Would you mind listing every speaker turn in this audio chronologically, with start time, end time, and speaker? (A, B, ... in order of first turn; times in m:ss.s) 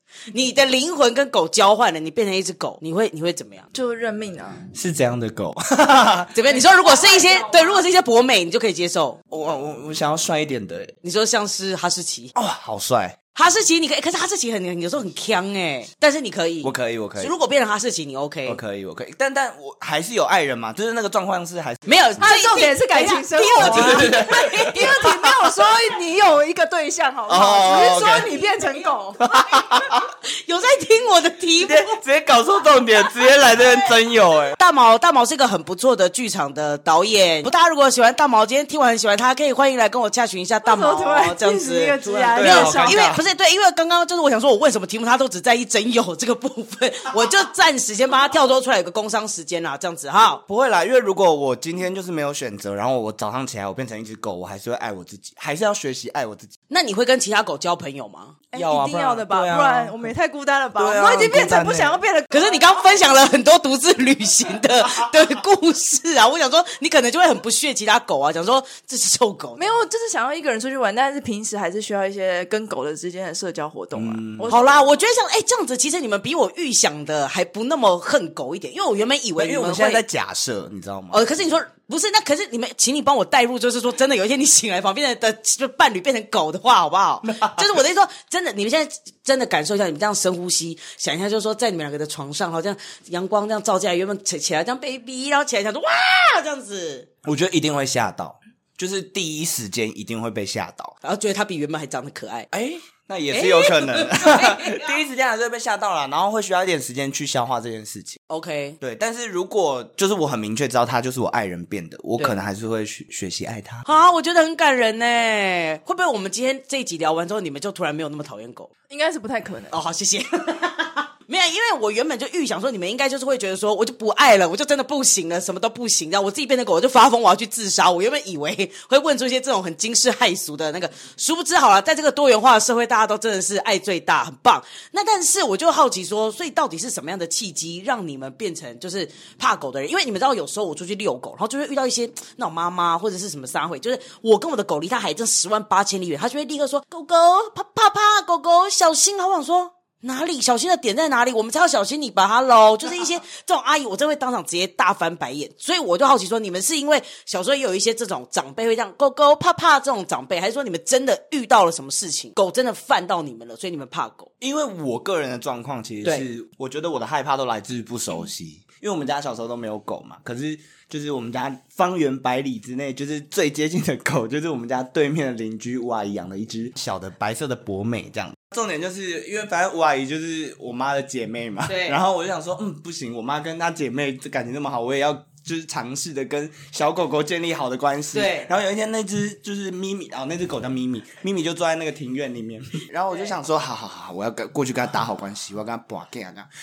0:00.3-0:03.7 A
0:03.7-0:04.6 B
0:04.7-0:06.4 C
0:06.3-0:09.2 A
0:06.5-0:07.8 B
0:09.3-0:11.0 C
0:11.0-0:12.3 A
0:12.4-0:13.2 C
0:13.4-0:18.6 A
0:16.6-0:17.3 C
0:18.5-0:22.0 C
0:21.9-0:24.9 A
0:22.2-0:29.2 B
0:23.6-0:25.5 C
0:27.3-0:28.3 C
0:29.2-0:30.1 C
0:29.8-0:32.0 A
0:31.6-0:34.6 C
0:34.6-0:50.4 A
0:40.6-0:43.1 B
0:42.1-0:43.2 C
0:50.5-0:56.5 C
0:56.7-0:58.4 A
0:58.5-1:00.1 C
0:58.5-1:03.0 B
1:00.8-1:02.0 C
1:02.3-1:09.6 A
1:09.6-1:14.8 B
1:14.0-1:14.5 C
1:14.5-1:20.0 A
1:19.4-1:21.4 C
1:21.1-1:37.1 A
1:27.2-1:27.8 C
1:37.2-1:41.0 C
1:41.0-1:42.5 A
1:42.5-1:48.2 C
1:43.3-1:45.0 A
1:48.3-1:48.8 A
1:48.8-1:53.8 C
1:53.8-1:58.7 A
1:58.9-1:59.7 B
1:59.7-2:44.3 A
2:44.4-3:16.5 C
3:01.7-3:02.0 A
3:08.1-3:08.5 A